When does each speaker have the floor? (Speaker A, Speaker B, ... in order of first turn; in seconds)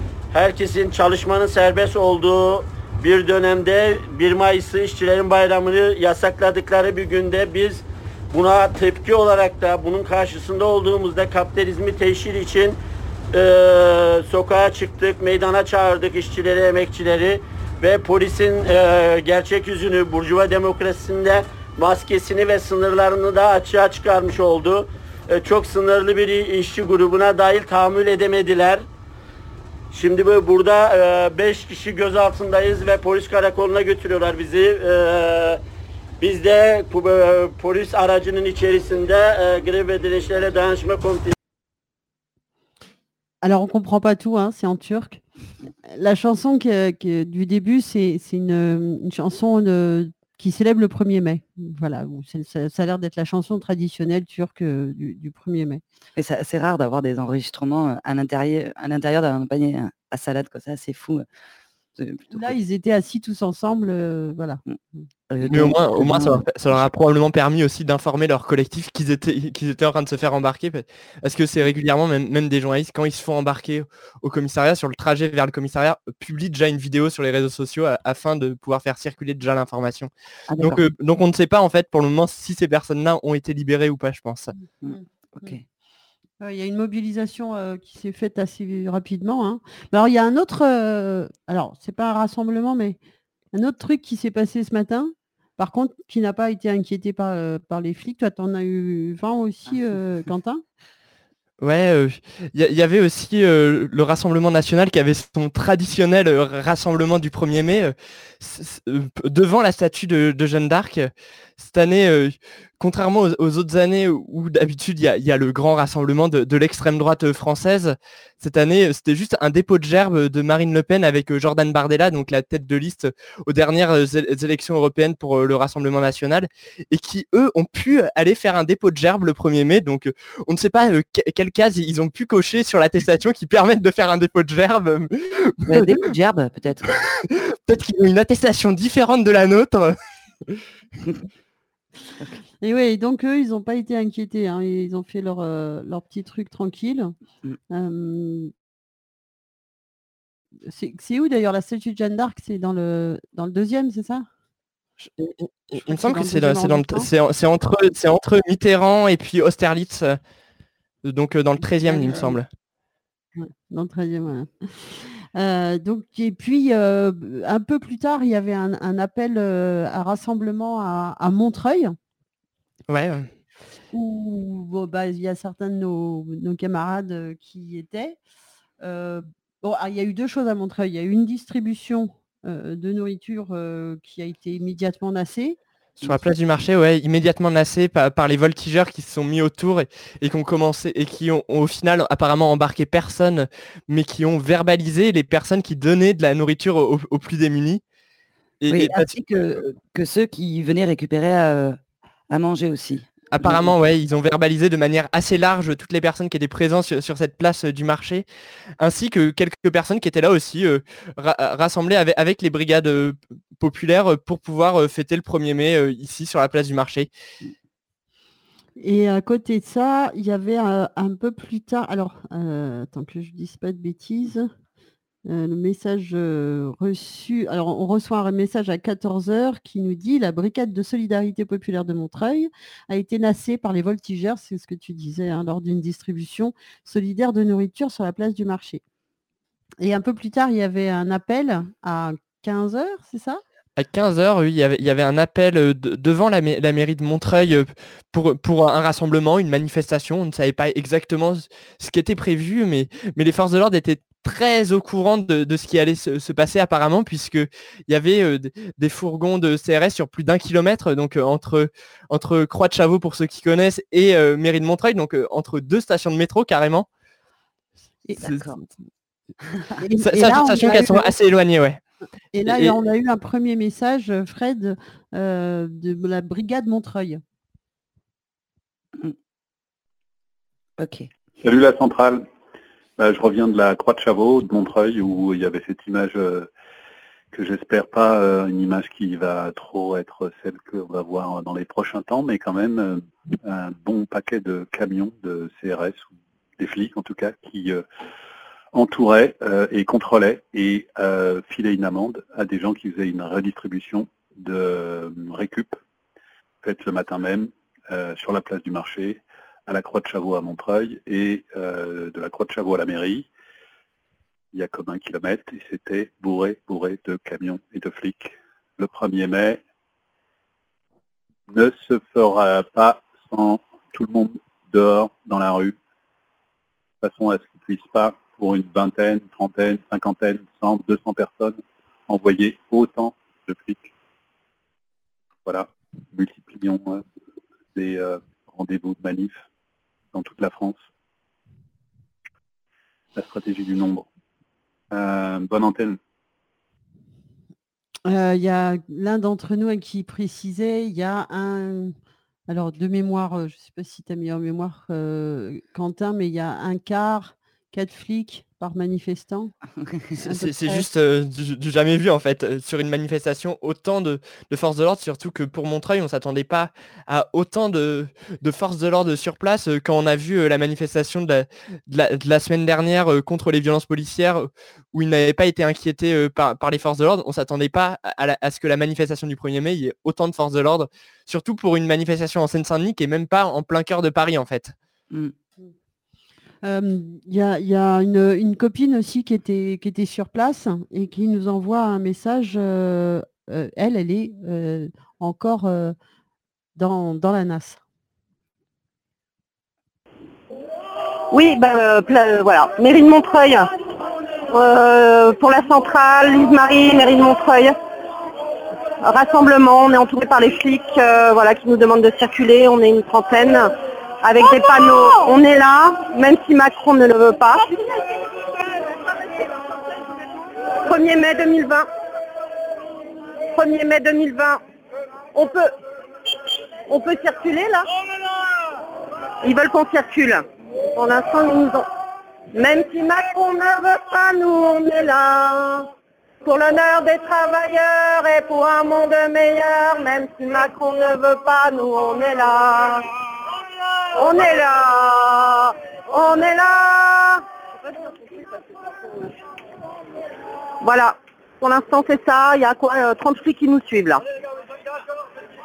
Speaker A: 0.3-12.8, 13.3-28.8, 29.9-35.6, 36.2-41.3
Speaker B: 43.4-45.2, 45.9-55.8, 62.3-64.6, 84.9-85.5, 86.4-93.0, 93.5-100.6, 142.6-147.1, 147.7-148.5, 150.6-154.3, 155.8-157.1, 161.8-162.4, 163.3-171.9, 173.9-178.2, 178.8-186.1, 218.8-224.5, 225.3-238.8, 239.8-243.4, 269.8-271.1, 272.3-277.2, 348.0-351.9, 352.5-359.5, 360.2-360.8, 386.6-395.9, 396.8-397.8
Speaker C: 56.2-61.2, 62.0-62.5, 65.3-66.9, 80.5-80.8, 84.8-85.6, 135.7-136.9, 198.7-201.8, 202.3-203.7, 268.2-268.6, 280.8-281.1
Speaker D: 65.4-84.5, 101.6-135.9, 137.3-139.9, 155.2-160.2, 161.0-162.5, 172.9-173.3, 186.0-197.8, 198.6-199.6, 203.3-208.2, 208.8-217.1, 243.8-266.9, 268.2-268.5, 270.0-271.8, 272.4-272.7, 360.3-384.7
Speaker E: 281.4-282.2, 283.0-286.5, 287.3-297.8, 298.7-305.8, 306.6-313.3, 314.5-319.6, 321.5-325.8, 327.0-333.9, 335.4-337.0, 337.7-339.4, 340.1-340.8, 343.1-344.1, 344.9-346.0
Speaker F: 401.3-403.7, 404.5-407.7, 409.0-417.7, 420.8-421.9, 423.5-424.6, 425.3-425.7, 426.9-427.9, 429.4-431.9, 432.5-435.9, 436.4-443.1, 444.1-447.4, 450.8-454.2